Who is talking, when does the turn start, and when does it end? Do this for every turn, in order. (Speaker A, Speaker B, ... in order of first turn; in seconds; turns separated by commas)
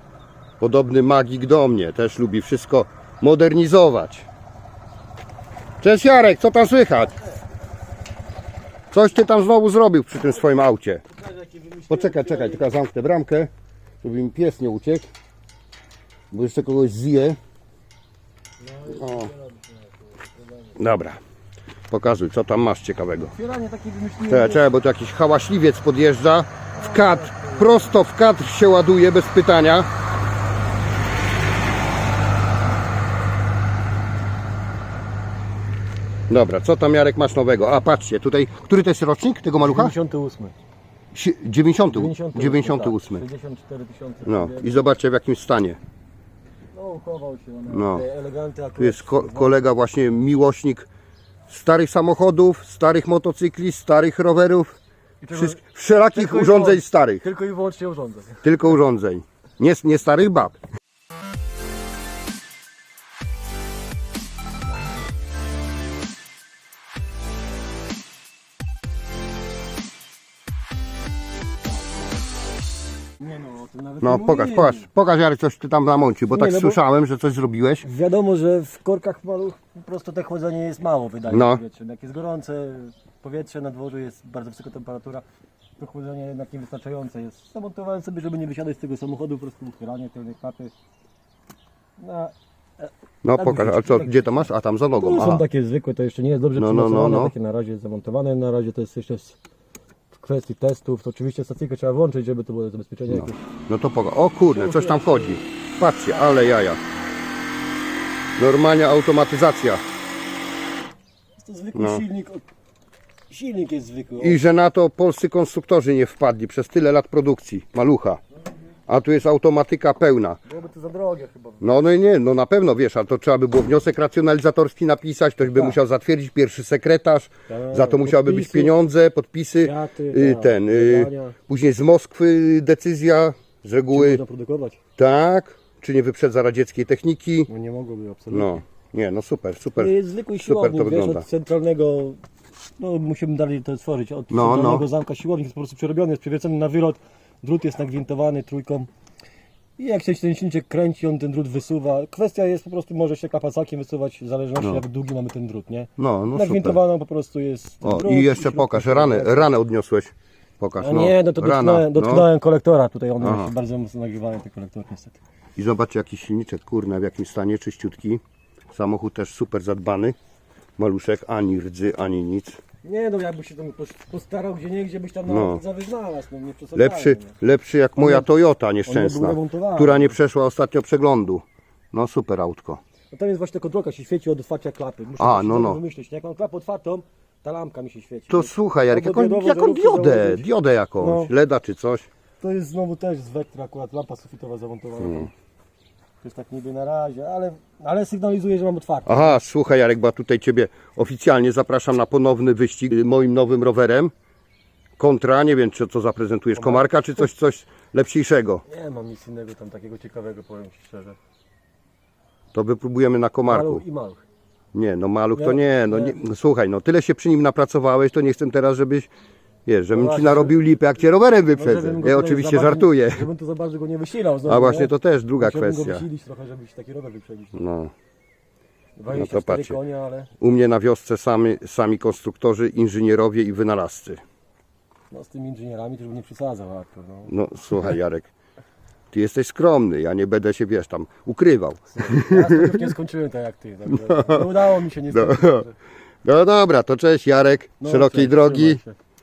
Speaker A: 0.6-4.3, Speaker A: 5.8-7.2, Speaker A: 8.9-11.0, Speaker B: 11.1-12.7, Speaker A: 11.9-13.5, Speaker A: 14.0-15.1, Speaker A: 16.3-17.4, Speaker B: 18.6-20.7, Speaker A: 18.9-19.3, Speaker A: 20.8-21.2, Speaker A: 21.9-23.3, Speaker B: 23.2-24.7, Speaker A: 24.3-29.9, Speaker B: 26.7-28.0, Speaker A: 36.3-39.9, Speaker B: 39.6-40.5, Speaker A: 41.1-43.2, Speaker B: 41.9-44.9, Speaker A: 44.2-45.8, Speaker B: 46.7-49.7, Speaker A: 47.7-48.0, Speaker A: 48.8-50.9, Speaker A: 51.5-54.8, Speaker B: 55.2-58.6, Speaker A: 55.3-57.2, Speaker A: 58.4-60.6, Speaker B: 73.2-74.9, Speaker A: 74.0-77.9, Speaker B: 76.3-76.8, Speaker B: 77.8-85.2, Speaker A: 81.3-81.6, Speaker B: 85.8-90.7, Speaker B: 92.0-94.4, Speaker A: 93.2-95.4, Speaker B: 95.0-99.4, Speaker A: 96.5-97.3, Speaker B: 100.1-103.4, Speaker A: 103.1-106.8, Speaker B: 104.5-105.4, Speaker A: 108.4-109.8, Speaker B: 111.4-112.4, Speaker A: 111.7-112.0, Speaker B: 113.3-114.4, Speaker A: 114.2-118.2, Speaker A: 118.9-120.4, Speaker B: 120.5-121.8, Speaker A: 121.6-134.2, Speaker B: 125.4-125.8, Speaker B: 127.5-128.7, Speaker B: 129.6-131.4, Speaker B: 133.9-134.8, Speaker A: 135.0-137.5, Speaker B: 137.5-138.6, Speaker A: 138.3-141.2, Speaker B: 139.8-142.2, Speaker B: 142.8-148.9, Speaker A: 144.3-144.9, Speaker B: 149.8-159.5, Speaker A: 156.0-156.8, Speaker A: 157.8-162.3, Speaker B: 160.8-165.2, Speaker A: 163.2-163.5, Speaker A: 165.6-168.2, Speaker A: 168.7-170.2, Speaker A: 170.8-172.6, Speaker B: 172.8-177.3, Speaker A: 175.3-175.6, Speaker A: 176.7-182.8, Speaker B: 178.0-178.3, Speaker B: 178.8-180.2, Speaker B: 183.1-190.4, Speaker A: 185.2-185.8, Speaker A: 188.3-192.1, Speaker B: 191.0-191.3, Speaker B: 192.4-195.3, Speaker A: 195.0-195.3, Speaker B: 196.2-199.4, Speaker A: 199.1-204.1, Speaker A: 205.0-208.6, Speaker B: 206.5-207.3, Speaker B: 208.7-211.2, Speaker A: 212.5-213.8, Speaker B: 213.4-214.2, Speaker A: 214.7-219.1, Speaker B: 215.3-216.2, Speaker A: 219.7-223.3, Speaker B: 219.9-220.6, Speaker B: 221.5-227.6, Speaker A: 224.4-226.1, Speaker A: 227.5-227.9, Speaker B: 229.0-230.3, Speaker A: 229.1-229.8, Speaker A: 230.4-234.2, Speaker B: 235.1-237.9, Speaker A: 237.3-238.3, Speaker A: 239.1-242.8, Speaker B: 241.9-245.7, Speaker A: 243.9-244.5, Speaker A: 245.1-245.7, Speaker A: 246.2-248.8, Speaker B: 247.8-248.9